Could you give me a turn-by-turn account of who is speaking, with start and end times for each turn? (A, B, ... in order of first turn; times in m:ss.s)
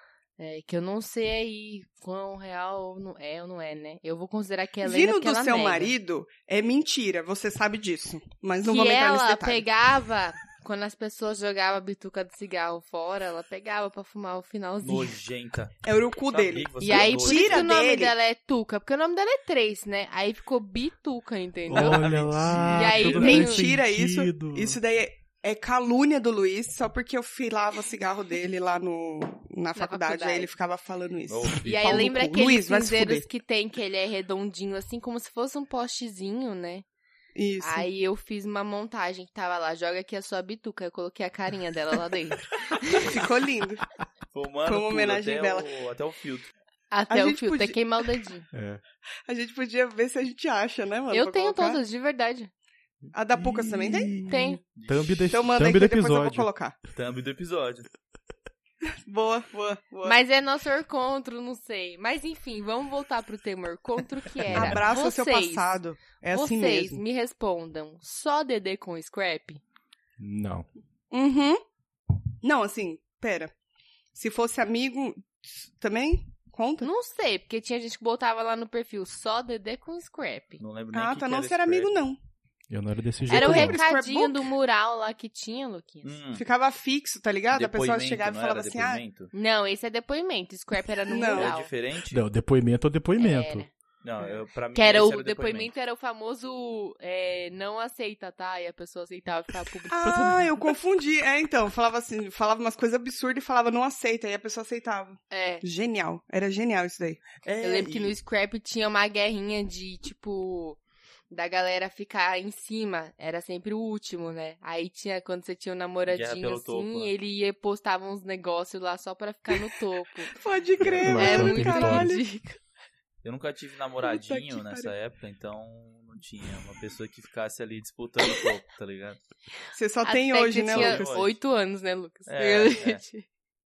0:00.4-0:05.9 A
0:04.8-0:09.6 B
0:08.6-0:15.1 A
0:14.8-0:17.7 C
0:15.8-0:18.1 B
0:16.8-0:22.1 A
0:21.7-0:23.4 C
0:21.7-0:24.8 D
0:22.7-0:23.7 A
0:23.0-0:33.3 B
0:29.8-0:30.5 A
0:31.3-0:32.2 C
0:31.6-0:36.8 A
0:37.4-0:37.9 B
0:37.6-0:43.1 A
0:42.9-0:43.8 B
0:44.3-0:46.5 C
0:44.7-0:45.7 B
0:46.9-0:48.5 A
0:47.1-0:47.8 B
0:48.5-0:48.8 D
0:49.3-0:51.8 B
0:51.1-0:52.5 A
0:53.1-0:54.4 B
0:53.4-0:56.5 D
0:54.3-0:54.6 A
0:54.8-0:55.3 C
0:55.3-0:56.8 B
0:56.9-0:57.9 C
0:59.1-1:00.2 B
1:00.0-1:09.6 A
1:04.5-1:04.8 D
1:04.5-1:07.0 B
1:10.2-1:10.7 D
1:11.1-1:11.6 B
1:12.4-1:13.5 B
1:14.1-1:16.9 B
1:16.8-1:20.6 A
1:20.6-1:21.9 C
1:20.9-1:22.2 B
1:22.7-1:23.8 D
1:23.3-1:24.5 B
1:23.3-1:26.2 A
1:26.0-1:26.4 C
1:26.4-1:29.0 B
1:27.5-1:29.3 C
1:29.3-1:31.7 A
1:31.1-1:31.5 B
1:31.3-1:32.2 C
1:32.1-1:33.7 D
1:33.2-1:33.7 A
1:34.0-1:35.7 C
1:34.7-1:40.5 A
1:39.9-1:47.3 B
1:45.3-1:45.6 A
1:47.4-1:48.2 C
1:47.6-1:50.8 A
1:51.3-2:00.3 A
1:56.1-1:57.1 C
2:00.3-2:02.2 B
2:00.8-2:01.1 C
2:01.0-2:02.1 D
2:01.1-2:02.6 A
2:03.2-2:09.2 C
2:04.0-2:04.9 B
2:09.8-2:11.2 B
2:10.0-2:13.3 A
2:10.7-2:11.4 C
2:12.3-2:13.0 C